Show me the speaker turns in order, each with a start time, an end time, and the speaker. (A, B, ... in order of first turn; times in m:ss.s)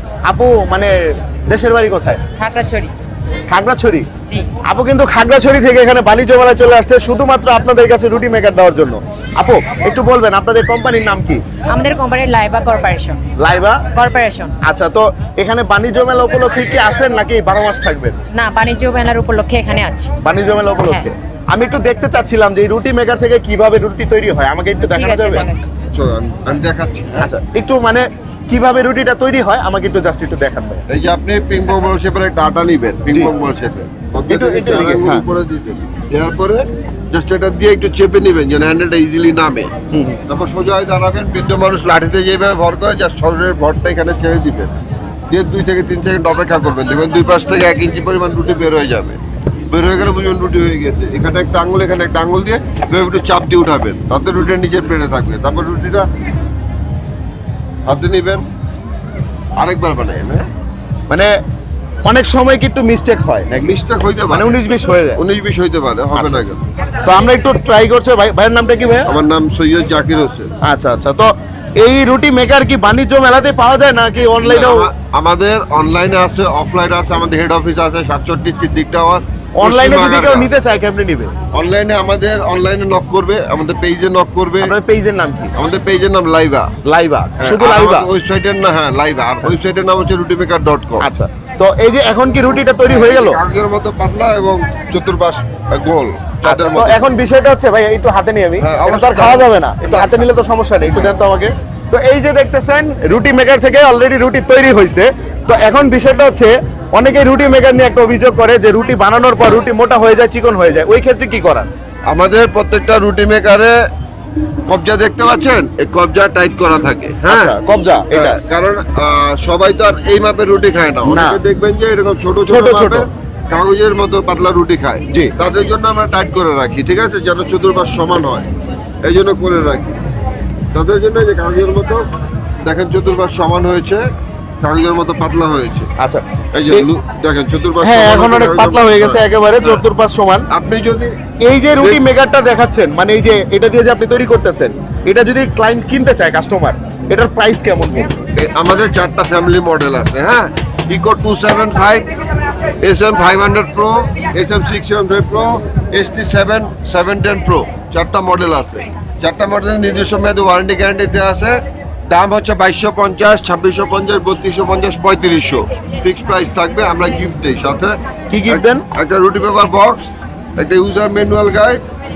0:00.3-0:02.2 A
0:02.4-0:02.9 B
0:03.5-0:04.1 A
0:04.6-0:11.4 A
0:11.7-0:13.2 B
0:13.4-0:13.8 A
0:13.9-0:14.5 B
0:14.6-0:18.2 A
0:18.3-0:20.1 B
0:20.2-0:25.5 A
0:20.8-0:21.1 B
0:24.8-0:25.7 B
0:25.9-0:27.3 C
0:27.2-0:30.8 A
0:30.9-0:39.7 C
0:34.2-0:35.2 A
0:39.9-0:40.2 A
0:40.3-0:44.7 C
0:45.3-0:49.2 C
0:49.7-0:56.0 C
0:57.8-0:58.4 C
0:59.6-1:00.4 C
1:02.0-1:03.8 A
1:03.6-1:04.6 C
1:04.3-1:05.2 A
1:05.1-1:06.6 C
1:06.1-1:06.5 A
1:07.0-1:09.1 A
1:09.0-1:10.5 C
1:10.6-1:14.9 A
1:14.4-1:20.5 C
1:19.6-1:21.3 A
1:21.5-1:24.7 C
1:24.6-1:25.5 A
1:25.5-1:26.7 C
1:26.8-1:28.1 A
1:27.4-1:31.0 C
1:31.0-1:33.4 A
1:32.8-1:37.0 C
1:36.4-1:51.7 A
1:38.6-1:40.3 C
1:52.1-1:53.8 C
1:54.7-1:57.6 C
1:57.3-1:58.4 A
1:58.1-2:08.5 C
2:01.0-2:01.4 A
2:02.5-2:03.1 A
2:09.0-2:10.0 C
2:10.7-2:12.0 C
2:12.6-2:14.1 C
2:14.6-2:15.9 C
2:16.0-2:16.9 A
2:16.5-2:19.8 C
2:17.8-2:20.5 A
2:20.5-2:21.2 C
2:21.4-2:28.1 A
2:21.8-2:22.0 C
2:28.3-2:32.1 C
2:32.8-2:51.8 C
2:48.3-2:48.8 A